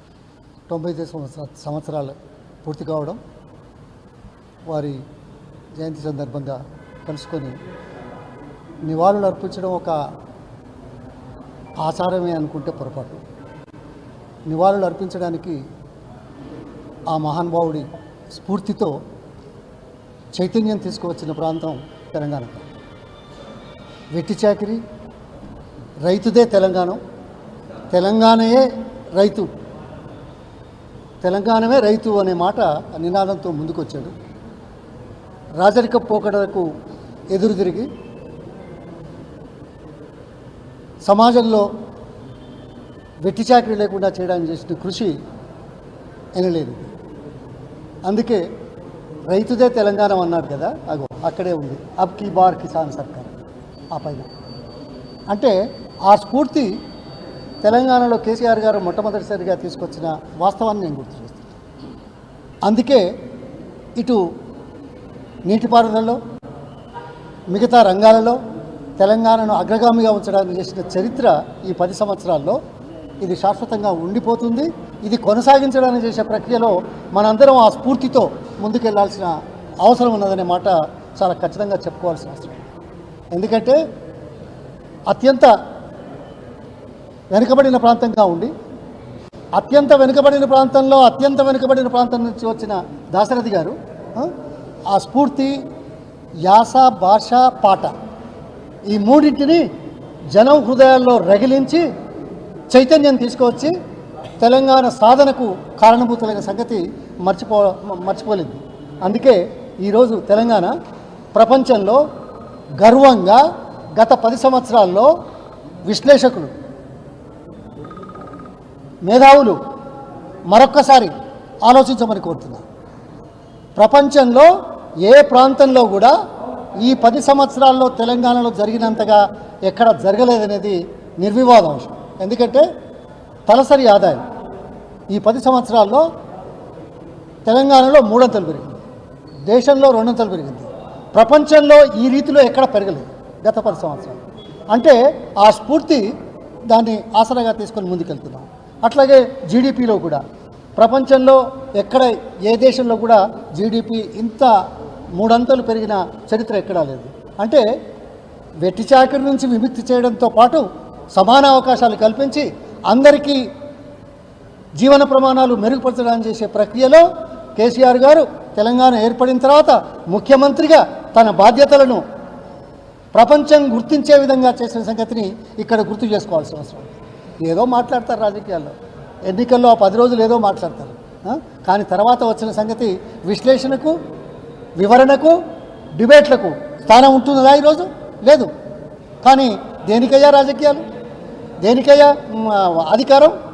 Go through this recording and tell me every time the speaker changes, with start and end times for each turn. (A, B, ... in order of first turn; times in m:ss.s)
0:00.7-0:03.2 A
0:04.7-0:05.0 A
0:05.8-0:07.6 A
0:08.8-0:10.0 A
0:11.8-0:13.2 A
0:14.5-0:15.6 A
0:17.1-0:19.0 A
0:20.3-0:22.7 A
0:24.1-0:24.8 A
0:26.0-0:27.0 A
0:27.9-0:29.5 A
0:31.2-0:34.1 A
0:35.6-0:36.7 A
0:37.3-0:37.9 A
0:41.0-0:41.7 A
0:43.2-0:45.1 A
0:46.4-0:46.9 A
0:48.0-0:48.4 A
0:49.3-0:53.3 A
0:53.9-0:54.3 A
0:55.3-0:55.6 A
0:56.1-0:56.7 A
0:57.6-1:01.6 A
1:02.6-1:03.0 A
1:05.4-1:06.2 A
1:07.5-1:08.4 A
1:09.0-1:12.6 A
1:13.2-1:22.7 A
1:23.3-1:23.8 A
1:25.1-1:25.5 A
1:27.3-1:28.5 A
1:29.5-1:34.3 A
1:34.9-1:35.5 A
1:36.4-1:37.9 A
1:38.9-1:39.7 A
1:40.3-1:41.8 A
1:42.7-1:43.7 A
1:44.4-1:50.7 A
1:51.3-1:52.0 A
1:52.8-1:53.4 A
1:53.9-1:55.1 A
1:55.8-1:56.5 A
1:59.0-1:59.6 A
2:00.5-2:01.1 A
2:01.6-2:02.6 A
2:03.8-2:06.1 A
2:06.8-2:12.6 A
2:13.5-2:14.2 A
2:15.1-2:16.1 A
2:17.4-2:18.9 A
2:19.5-2:24.2 A
2:24.7-2:26.1 A
2:26.7-2:30.2 A
2:30.8-2:34.5 A
2:35.1-2:37.6 A
2:38.6-2:43.5 A
2:44.8-2:47.0 A
2:47.6-2:52.0 A
2:53.1-2:58.7 A
2:59.2-3:04.0 A
3:04.8-3:05.4 A
3:05.9-3:08.5 A
3:09.2-3:10.8 A
3:11.6-3:13.4 A